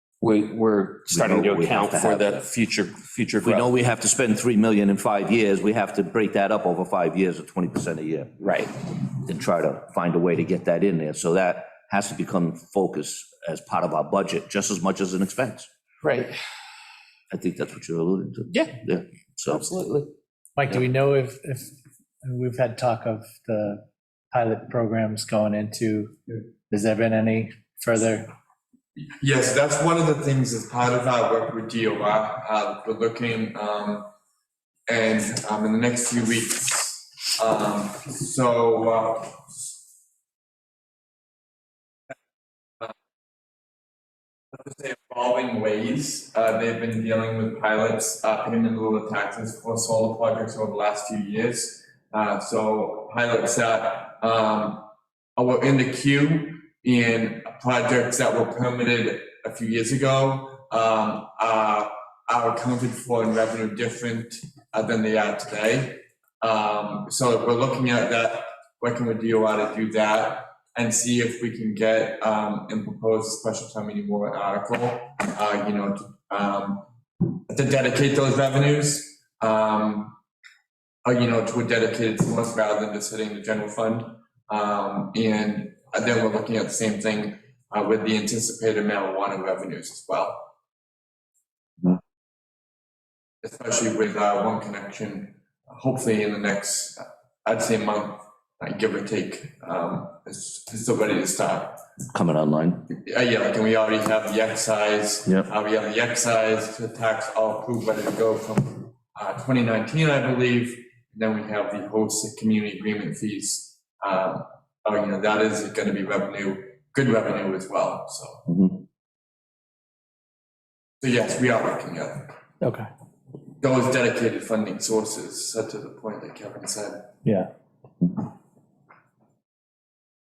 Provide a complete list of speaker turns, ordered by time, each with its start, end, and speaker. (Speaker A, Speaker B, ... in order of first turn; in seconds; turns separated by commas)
Speaker A: 0.2-3.6, Speaker B: 1.1-2.4, Speaker B: 3.4-8.3, Speaker A: 8.4-8.7, Speaker B: 9.2-15.7, Speaker A: 16.0-16.4, Speaker B: 17.3-19.7, Speaker A: 18.5-18.8, Speaker A: 19.5-20.1, Speaker C: 20.6-28.3, Speaker D: 29.0-34.1, Speaker D: 34.9-39.5, Speaker D: 44.5-80.2, Speaker D: 81.0-90.5, Speaker D: 93.4-101.8, Speaker B: 102.1-102.9, Speaker D: 102.9-118.4, Speaker B: 118.5-118.8, Speaker D: 121.0-122.4, Speaker C: 122.6-122.9, Speaker D: 123.6-127.1, Speaker C: 127.2-127.5